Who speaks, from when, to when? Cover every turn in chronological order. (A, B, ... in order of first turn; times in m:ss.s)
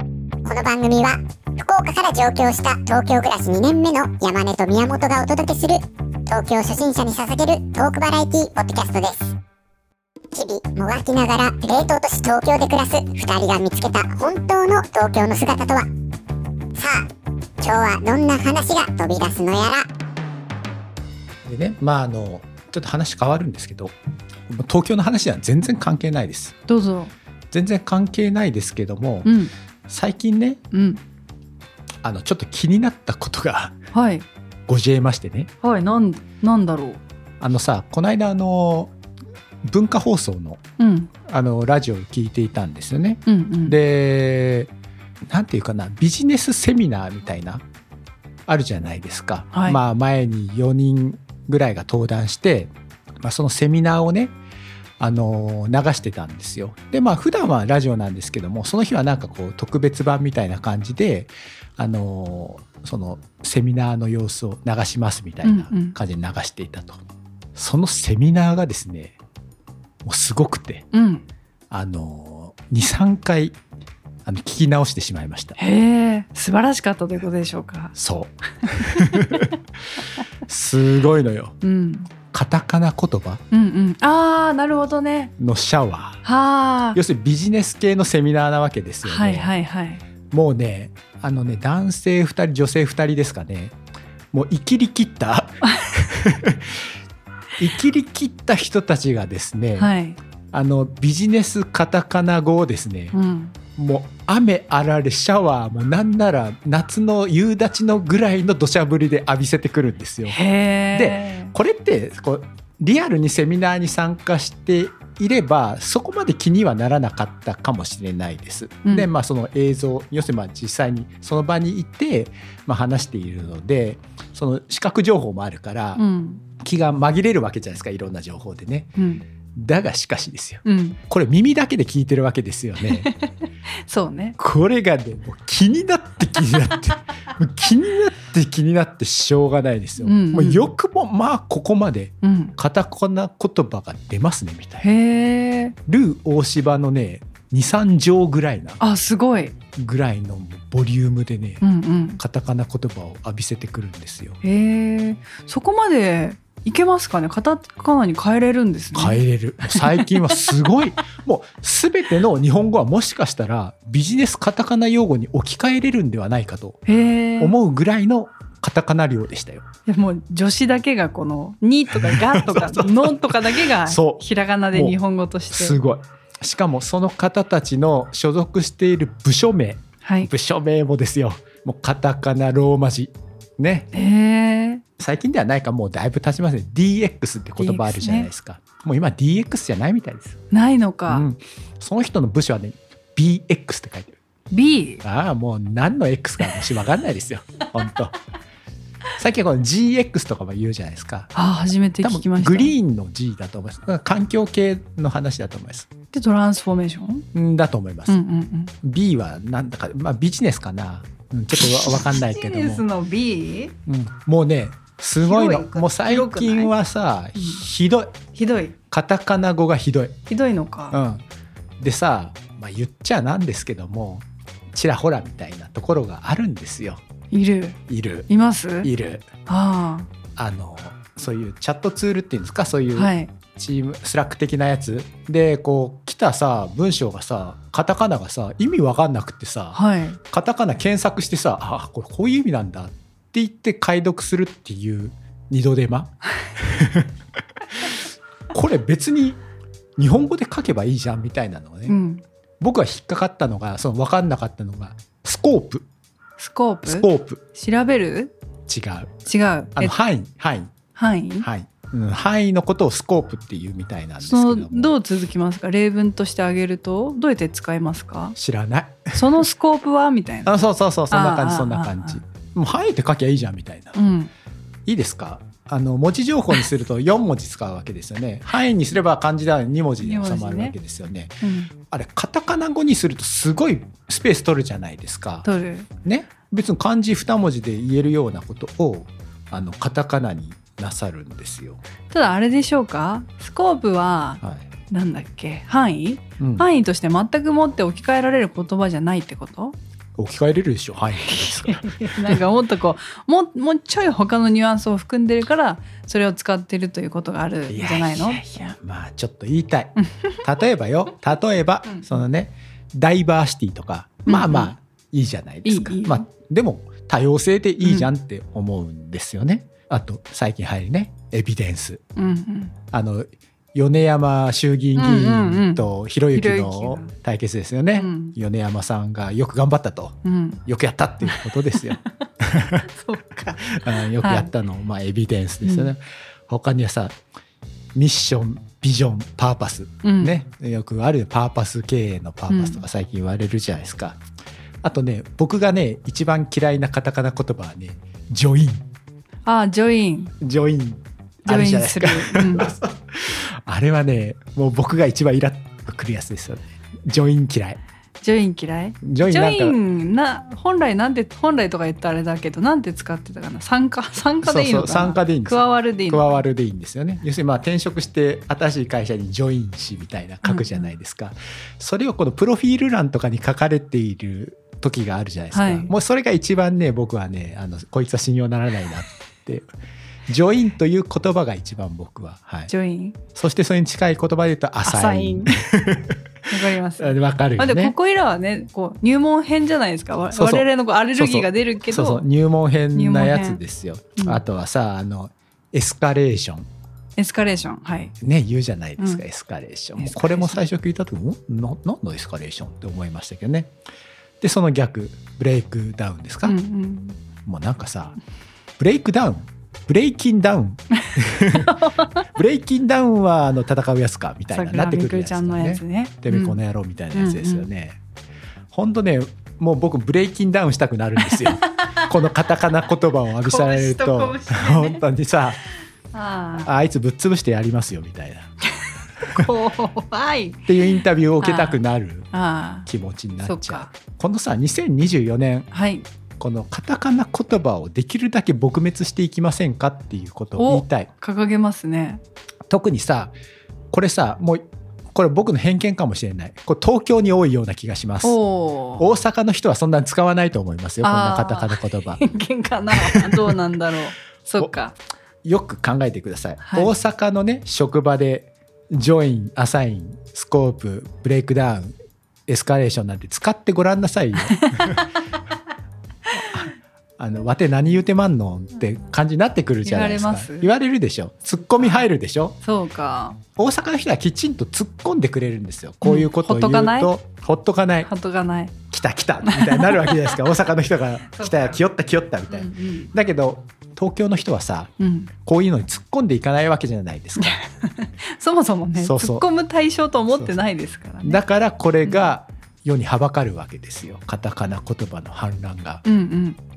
0:00.4-0:09.3 A
0:10.3-0:15.9 A
0:16.8-0:17.0 A
0:17.6-0:19.9 A
0:21.4-0:23.9 B
0:24.5-0:26.6 B
0:26.7-0:27.1 C
0:27.5-0:29.4 B
0:29.2-0:29.5 C
0:29.9-0:30.6 B
0:30.7-0:31.0 C
0:32.0-0:33.8 B
0:33.9-0:34.3 C
0:34.7-0:35.5 B
0:35.6-0:37.0 C
0:37.4-0:38.9 B
0:39.6-0:40.6 B
0:40.8-0:41.1 C
0:41.2-0:44.7 B
0:43.3-0:43.8 C
0:45.3-0:47.6 B
0:48.5-0:54.4 B
0:49.5-0:49.8 C
0:55.0-1:07.0 B
1:05.4-1:06.0 C
1:07.6-1:09.2 B
1:10.0-1:10.9 B
1:10.9-1:11.2 C
1:11.7-1:13.6 B
1:14.2-1:15.6 B
1:15.6-1:18.0 C
1:18.0-1:19.5 B
1:18.6-1:19.5 C
1:20.5-1:21.6 B
1:21.6-1:22.1 C
1:22.3-1:23.4 B
1:23.5-1:25.3 C
1:25.4-1:26.2 B
1:26.2-1:27.0 C
1:26.9-1:29.5 B
1:29.0-1:30.0 C
1:30.3-1:33.8 B
1:34.3-1:36.8 B
1:37.6-1:39.9 B
1:39.8-1:40.2 C
1:40.5-1:43.2 B
1:43.1-1:43.6 C
1:43.8-1:50.4 B
1:50.3-1:51.6 C
1:50.9-2:06.0 B
1:58.8-1:59.1 C
2:06.0-2:06.4 C
2:06.6-2:08.9 B
2:09.0-2:09.2 C
2:09.6-2:13.1 B
2:10.6-2:11.0 C
2:12.9-2:13.3 C
2:13.8-2:14.4 C
2:14.4-2:24.9 B
2:20.0-2:20.7 C
2:22.2-2:22.6 C
2:24.8-2:25.8 C
2:25.9-2:28.8 B
2:28.8-2:29.6 C
2:29.8-2:31.6 B
2:31.6-2:32.2 C
2:32.2-2:34.4 B
2:34.4-2:40.5 C
2:38.9-2:46.8 B
2:46.9-2:47.6 C
2:47.4-2:49.7 B
2:49.9-2:55.8 C
2:51.9-2:55.0 B
2:55.5-3:03.9 B
3:00.0-3:00.3 C
3:03.9-3:04.8 C
3:05.0-3:10.4 B
3:07.6-3:08.3 C
3:10.5-3:11.3 C
3:11.1-3:14.2 B
3:14.5-3:15.0 C
3:15.0-3:18.1 B
3:19.2-3:21.3 B
3:21.3-3:22.8 C
3:22.0-3:25.9 B
3:26.1-3:27.2 C
3:27.3-3:28.2 B
3:28.1-3:28.7 C
3:28.8-3:32.8 B
3:31.6-3:33.8 C
3:33.9-3:38.2 B
3:35.2-3:36.7 C
3:38.4-3:38.8 C
3:38.9-3:40.2 B
3:40.3-3:41.0 C
3:40.9-3:41.2 B
3:41.8-3:47.0 B
3:47.3-3:47.8 C
3:47.9-3:48.3 B
3:48.3-3:48.9 C
3:48.8-3:49.3 B
3:49.5-3:50.1 C
3:50.4-3:59.8 B
3:53.0-3:53.3 C
3:59.7-4:00.2 C
4:00.3-4:07.1 B
4:08.5-4:09.4 B
4:10.0-4:12.0 B
4:11.9-4:12.2 C
4:12.6-4:15.9 B
4:16.4-4:18.3 C
4:16.9-4:17.4 B
4:18.7-4:19.2 B
4:19.3-4:20.0 C
4:19.8-4:20.7 B
4:21.0-4:21.5 C
4:21.4-4:25.0 B
4:24.2-4:28.4 C
4:28.4-4:29.3 B
4:29.1-4:30.6 C
4:30.4-4:34.0 B
4:31.1-4:32.2 C
4:34.0-4:34.3 C
4:34.9-4:45.5 B
4:40.0-4:40.8 C
4:41.4-4:41.7 C
4:45.4-4:45.9 C
4:46.0-4:51.8 B
4:52.1-4:59.8 C
4:54.4-4:54.7 B
4:56.4-4:56.7 B
5:00.2-5:02.4 B
5:01.2-5:08.7 C
5:07.7-5:22.0 B
5:10.0-5:10.4 C
5:14.3-5:14.7 C
5:15.6-5:16.2 C
5:17.8-5:18.1 C
5:22.2-5:22.7 C
5:22.9-5:32.9 B
5:25.0-5:25.8 C
5:26.4-5:27.1 C
5:28.0-5:28.4 C
5:30.2-5:30.6 C
5:31.2-5:31.9 C
5:32.8-5:34.5 C
5:33.7-5:37.2 B
5:35.6-5:35.9 C
5:37.9-5:44.2 B
5:40.0-5:40.4 C
5:42.5-5:42.8 C
5:44.8-5:48.9 B
5:49.5-5:50.3 C
5:50.4-5:57.8 B
5:51.5-5:52.7 C
5:58.2-6:06.4 C
5:59.0-5:59.8 B
6:04.4-6:19.7 B
6:10.4-6:10.9 C
6:15.5-6:15.9 C
6:20.3-6:22.7 B
6:22.7-6:23.2 C
6:23.3-6:26.2 B
6:24.8-6:25.6 C
6:26.5-6:32.2 C
6:27.0-6:28.0 B
6:30.3-6:36.7 B
6:32.9-6:33.6 C
6:37.2-6:38.1 C
6:38.2-6:43.7 B
6:40.0-6:40.6 C
6:44.4-6:46.6 B
6:46.4-6:47.2 C
6:47.4-6:48.2 B
6:48.8-6:58.0 B
6:51.1-6:52.2 C
6:54.5-6:56.6 C
6:57.1-6:57.7 C
6:58.7-7:05.6 B
7:01.3-7:02.0 C
7:03.4-7:05.0 C
7:06.1-7:06.7 C
7:06.6-7:08.5 B
7:08.8-7:10.7 C
7:10.7-7:12.3 B
7:11.4-7:11.8 C
7:12.3-7:12.9 C
7:12.9-7:15.7 B
7:13.4-7:13.9 C
7:15.7-7:16.0 C
7:16.4-7:21.1 B
7:20.6-7:22.2 C
7:22.7-7:23.3 B
7:23.9-7:28.4 B
7:28.2-7:29.1 C
7:29.0-7:32.2 B
7:31.0-7:35.0 C
7:32.9-7:33.6 B
7:35.4-7:42.0 B
7:36.6-7:36.9 C
7:42.5-7:45.1 B
7:44.5-7:45.1 C
7:46.3-7:52.6 B
7:49.8-7:50.7 C
7:52.6-7:53.4 C
7:53.6-7:58.1 B
7:56.0-7:57.1 C
7:58.0-7:58.8 C
7:58.9-8:07.6 B
7:59.4-8:00.4 C
8:01.3-8:01.8 C
8:02.5-8:03.1 C
8:05.0-8:05.3 C
8:07.4-8:11.4 C
8:09.0-8:09.4 B
8:10.3-8:10.6 B
8:11.2-8:16.0 B
8:16.0-8:16.6 C